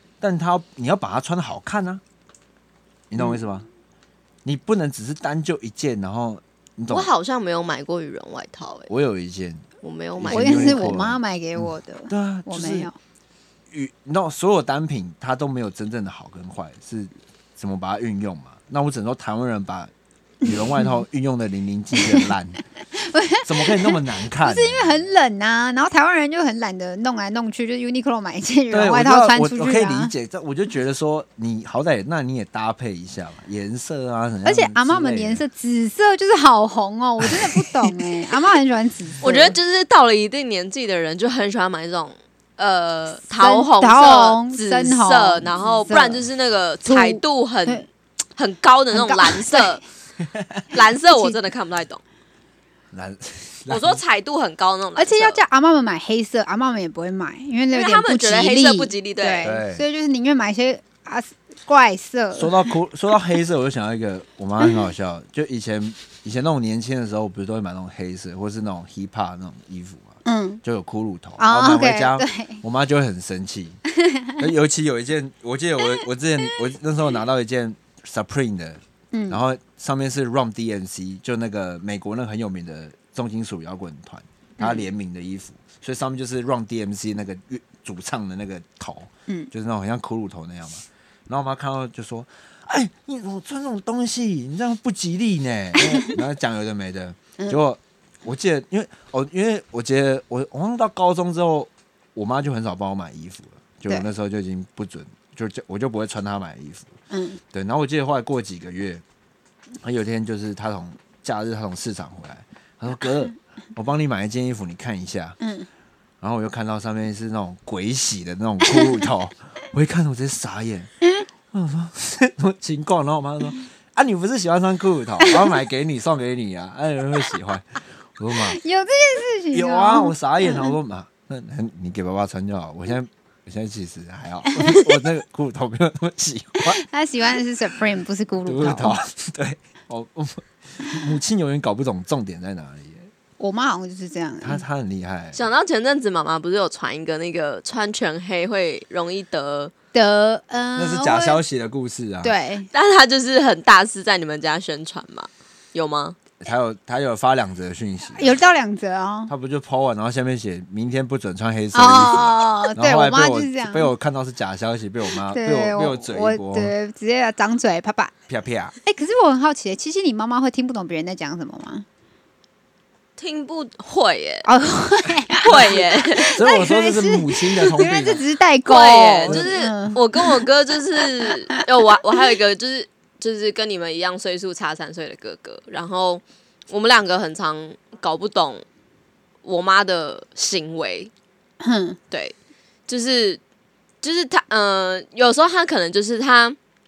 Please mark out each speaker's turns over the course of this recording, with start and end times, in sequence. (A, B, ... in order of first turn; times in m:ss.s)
0:00.2-0:02.0 A
0:03.1-0:03.7 A
0:04.4-0:07.1 A
0:06.9-0:08.9 B
0:08.9-0:09.6 A
0:09.8-0:11.0 B
0:10.2-0:12.9 A
0:10.3-0:13.0 C
0:13.7-0:22.6 A
0:20.5-0:20.9 C
0:22.0-0:22.3 C
0:22.9-0:30.1 C
0:23.4-0:25.0 A
0:28.7-0:35.4 A
0:34.4-0:39.6 C
0:37.2-0:37.9 A
0:39.2-0:47.8 B
0:43.4-0:46.2 C
0:46.9-0:47.9 C
0:48.4-0:49.8 B
0:48.9-0:49.8 C
0:50.3-0:50.6 A
0:50.7-0:52.0 B
0:51.1-0:51.3 C
0:52.9-0:54.0 A
0:53.7-0:55.4 B
0:55.0-1:02.7 C
0:57.7-0:59.6 B
0:59.4-0:59.8 A
1:02.3-1:13.8 A
1:10.2-1:10.6 C
1:11.4-1:12.6 C
1:14.0-1:14.4 C
1:14.4-1:47.0 A
1:19.1-1:19.4 C
1:24.6-1:24.8 C
1:47.1-1:47.4 C
1:47.5-1:49.0 A
1:49.8-1:55.4 A
1:55.4-1:55.7 C
1:56.2-2:00.9 A
2:01.5-2:08.6 A
2:08.5-2:10.7 C
2:09.5-2:16.8 A
2:16.6-2:19.0 C
2:18.5-2:23.1 A
2:23.4-2:24.6 C
2:24.4-2:25.4 A
2:25.3-2:29.7 B
2:29.9-2:31.4 C
2:30.8-2:32.4 A
2:32.2-2:32.7 C
2:32.7-2:36.2 B
2:36.4-2:38.4 A
2:38.2-2:39.3 C
2:39.3-2:46.7 A
2:41.7-2:43.9 C
2:45.3-2:48.1 C
2:48.3-2:48.8 A
2:48.8-2:51.9 C
2:53.2-2:54.5 B
2:54.4-3:00.5 C
2:55.4-2:56.4 B
2:56.3-2:58.2 A
2:58.7-3:08.6 B
3:01.2-3:01.6 C
3:09.4-3:11.1 B
3:11.6-3:12.0 C
3:12.9-3:13.4 B
3:14.0-3:16.6 B